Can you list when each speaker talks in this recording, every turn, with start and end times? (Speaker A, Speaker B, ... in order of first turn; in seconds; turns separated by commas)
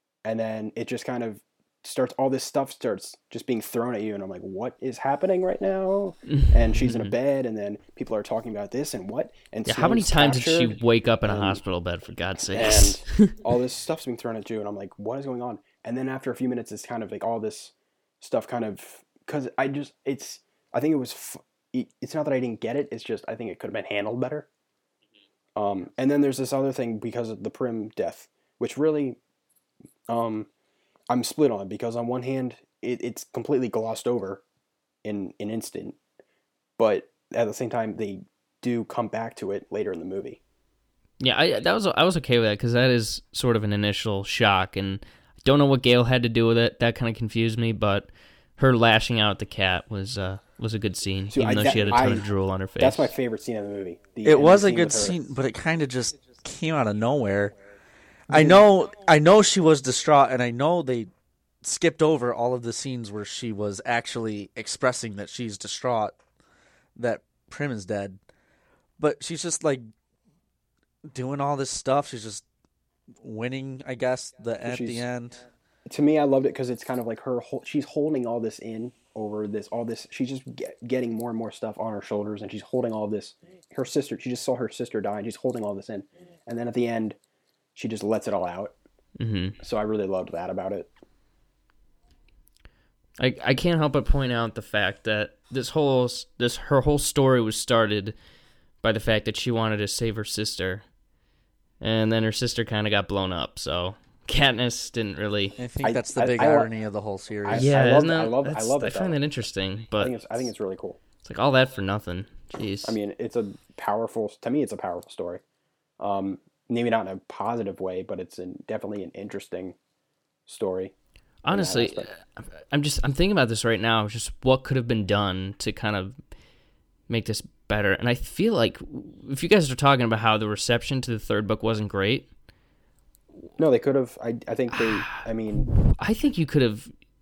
Speaker A: 0.2-11.6, Speaker B: 6.3-7.1, Speaker B: 9.7-13.4, Speaker A: 12.5-24.5, Speaker A: 25.6-29.2, Speaker A: 30.1-30.5, Speaker A: 31.1-34.4, Speaker A: 35.0-36.0, Speaker A: 36.8-40.4, Speaker B: 41.2-53.1, Speaker A: 51.3-52.3, Speaker A: 52.8-55.2, Speaker C: 54.2-57.5, Speaker C: 58.3-61.1, Speaker A: 58.3-58.6, Speaker C: 61.6-66.2, Speaker C: 67.0-68.2, Speaker C: 69.0-69.8, Speaker C: 71.1-72.4, Speaker C: 73.2-75.4, Speaker A: 74.7-75.0, Speaker A: 75.9-87.2, Speaker A: 87.8-88.8, Speaker B: 89.2-89.6, Speaker A: 89.6-90.9, Speaker B: 93.2-98.2, Speaker B: 98.8-100.8, Speaker B: 101.8-105.6, Speaker C: 105.6-107.7, Speaker A: 105.8-106.7, Speaker A: 107.5-109.2, Speaker B: 107.5-110.2, Speaker A: 110.0-111.0, Speaker B: 111.2-113.0, Speaker A: 112.8-115.4, Speaker A: 116.0-119.8, Speaker A: 120.5-120.9, Speaker B: 121.4-126.2, Speaker A: 121.5-122.1, Speaker B: 127.1-132.3, Speaker A: 133.6-135.7, Speaker B: 134.7-136.9